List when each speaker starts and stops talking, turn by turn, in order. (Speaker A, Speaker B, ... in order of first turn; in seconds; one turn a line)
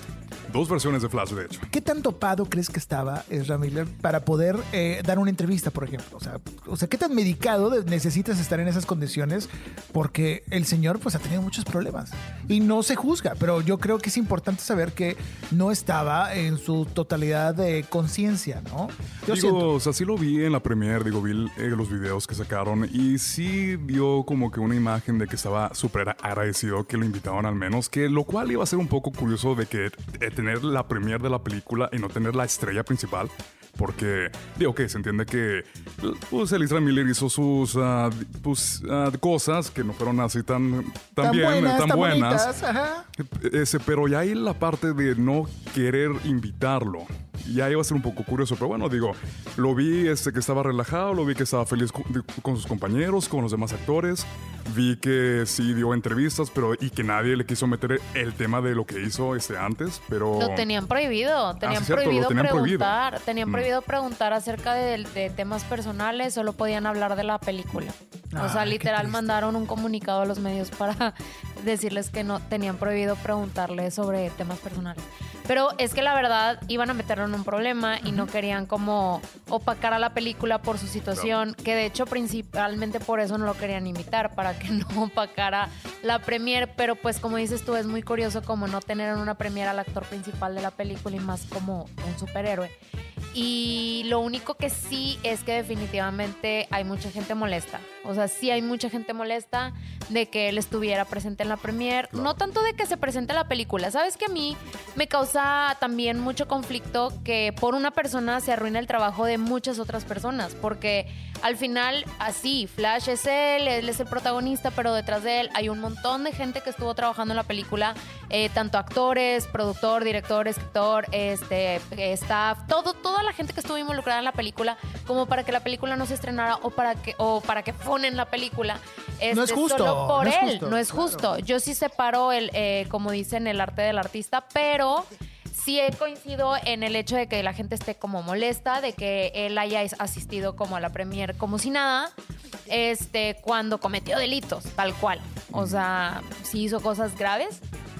Speaker A: 0.5-1.7
Speaker B: 1.7-19.7
Speaker A: 19.3-42.5
Speaker B: 41.2-43.1
Speaker A: 43.2-60.6
Speaker C: 60.4-92.7
Speaker A: 61.6-62.9
Speaker B: 68.3-69.4
Speaker A: 81.1-81.4
Speaker C: 93.3-142.1
Speaker B: 129.3-131.3
Speaker C: 142.7-147.6
Speaker A: 145.5-145.8